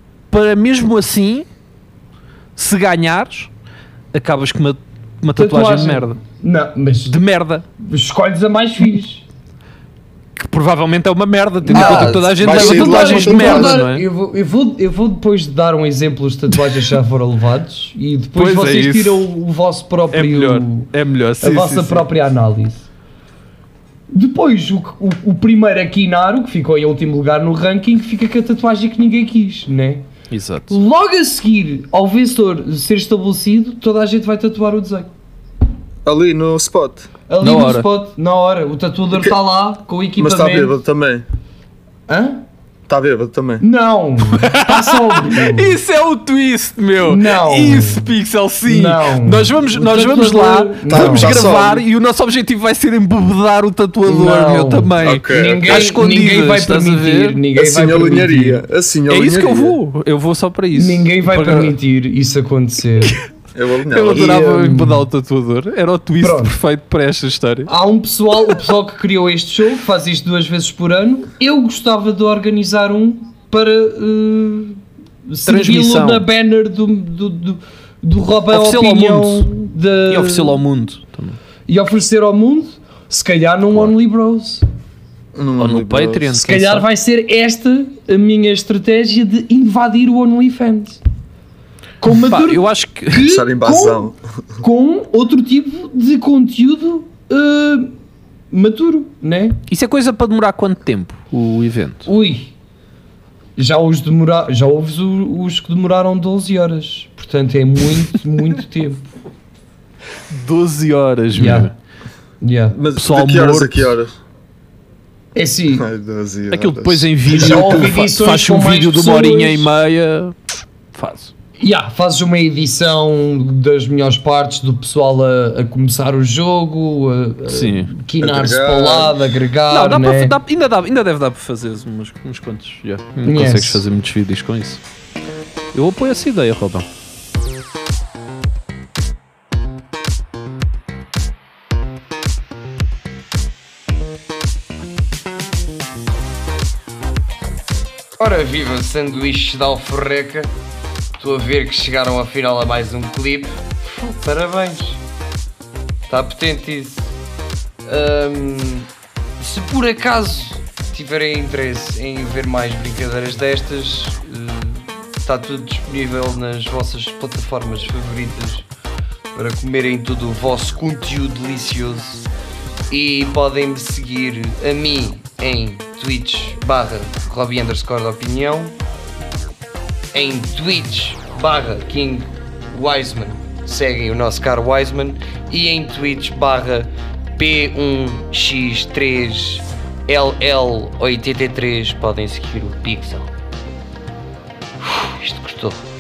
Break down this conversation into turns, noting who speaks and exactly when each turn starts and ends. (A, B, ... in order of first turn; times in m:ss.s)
0:00.3-0:01.5 A
0:02.6-0:03.5 A
0:04.1-0:06.2 A
0:05.3-0:07.2 B
0:07.1-0:07.6 A
0:07.8-0:09.2 B
0:10.4-0:14.0 A
0:11.7-0:22.9 B
0:11.7-0:13.8 C
0:18.4-0:19.2 A
0:20.1-0:22.0 A
0:24.1-0:30.1 B
0:30.3-0:30.8 A
0:30.7-0:35.1 B
0:36.0-0:37.1 C
0:37.3-0:40.8 B
0:37.4-0:37.9 A
0:40.2-0:41.2 C
0:42.1-0:42.4 B
0:42.9-0:43.6 C
0:43.6-0:45.8 B
0:44.3-0:57.4 A
0:47.0-0:48.1 B
0:48.7-0:51.5 B
0:50.9-0:51.8 C
0:54.1-0:58.6 B
0:55.0-0:56.0 C
0:57.5-0:59.8 C
0:59.1-1:01.8 A
1:00.7-1:03.2 B
1:03.5-1:04.4 C
1:03.9-1:07.7 A
1:04.1-1:05.1 B
1:06.2-1:06.6 B
1:07.7-1:20.6 B
1:15.5-1:16.2 A
1:18.5-1:19.5 A
1:20.1-1:21.4 A
1:21.7-1:24.6 B
1:25.4-1:26.3 C
1:25.6-1:26.9 A
1:26.4-1:31.0 B
1:32.0-1:38.0 B
1:32.3-1:33.2 A
1:33.3-1:34.2 C
1:38.5-1:39.6 B
1:39.7-1:42.0 A
1:42.0-1:42.5 B
1:43.6-1:49.0 B
1:50.3-1:51.7 A
1:51.3-1:51.7 B
1:52.4-1:52.8 B
1:52.7-1:54.1 C
1:52.9-1:54.0 A
1:55.4-1:55.9 B
1:55.8-1:57.8 C
1:56.5-2:00.4 A
1:57.3-1:59.7 B
2:00.9-2:01.3 A
2:01.6-2:10.4 B
2:07.5-2:07.9 A
2:08.2-2:09.3 C
2:09.7-2:14.8 A
2:13.2-2:13.8 B
2:15.7-2:16.9 A
2:28.2-2:30.5 B
2:31.2-2:35.0 B
2:36.1-2:37.2 B
2:37.8-2:48.7 B
2:49.3-2:52.2 B
2:52.9-2:58.8 B
3:00.1-3:13.3 B
3:14.8-3:15.8 B